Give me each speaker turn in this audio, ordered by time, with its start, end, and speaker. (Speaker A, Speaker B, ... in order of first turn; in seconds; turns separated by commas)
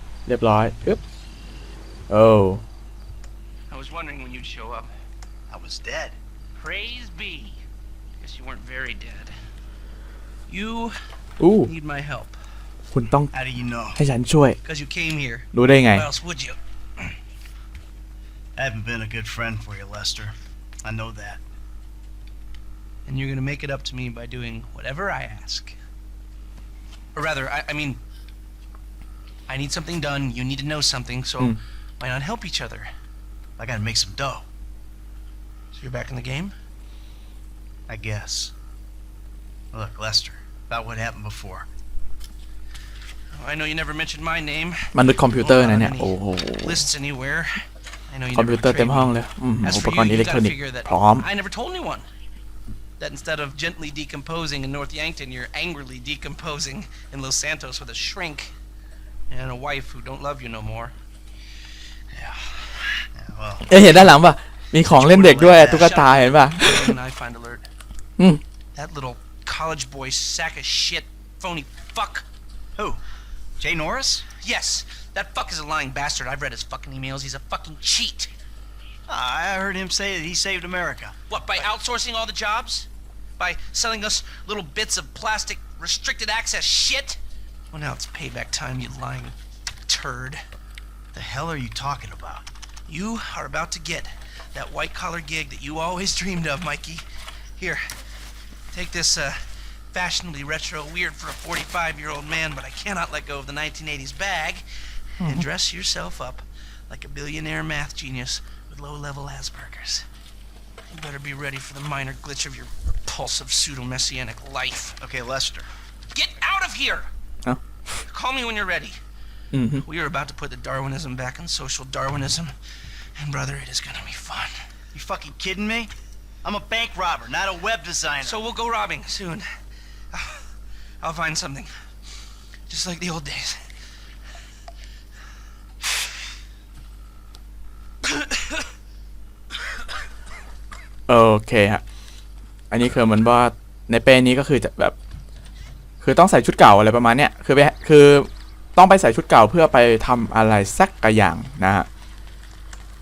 Speaker A: 0.3-1.0, Speaker A: 2.1-2.6, Speaker B: 3.7-4.9, Speaker C: 5.5-6.2, Speaker B: 6.6-7.6, Speaker B: 8.2-9.3, Speaker B: 10.5-10.9, Speaker A: 11.4-11.7, Speaker B: 11.6-12.4, Speaker A: 12.9-13.3, Speaker C: 13.3-14.0, Speaker A: 13.9-14.6, Speaker B: 14.6-17.1, Speaker A: 15.5-16.1, Speaker C: 18.6-21.4, Speaker B: 23.1-25.8, Speaker B: 27.1-28.0, Speaker B: 29.5-32.9, Speaker C: 33.6-34.5, Speaker B: 35.7-36.5, Speaker C: 37.9-38.5, Speaker C: 39.7-41.7, Speaker B: 43.4-44.9, Speaker A: 44.9-46.9, Speaker B: 45.4-52.1, Speaker A: 48.3-51.3, Speaker B: 53.0-58.5, Speaker B: 59.3-60.9, Speaker C: 63.1-63.8, Speaker A: 63.7-67.0, Speaker B: 64.8-67.7, Speaker B: 68.8-72.2, Speaker C: 72.8-73.0, Speaker C: 73.6-74.2, Speaker B: 74.4-78.3, Speaker C: 79.1-81.2, Speaker B: 81.3-82.9, Speaker B: 83.4-87.2, Speaker B: 87.7-89.4, Speaker B: 89.9-90.4, Speaker C: 91.1-92.5, Speaker B: 92.9-97.0, Speaker B: 97.6-97.8, Speaker B: 98.7-99.4, Speaker B: 99.9-104.7, Speaker A: 105.2-105.5, Speaker B: 105.2-110.1, Speaker B: 110.9-115.0, Speaker C: 115.0-115.7, Speaker B: 116.1-117.1, Speaker A: 117.5-118.0, Speaker B: 118.1-119.0, Speaker A: 119.5-119.8, Speaker B: 119.8-122.5, Speaker B: 123.2-124.5, Speaker C: 124.9-125.9, Speaker C: 126.4-128.4, Speaker B: 128.2-129.5, Speaker B: 130.1-130.4, Speaker B: 131.0-131.7, Speaker B: 132.7-133.6, Speaker A: 141.1-141.8, Speaker A: 142.7-145.0, Speaker A: 146.0-151.9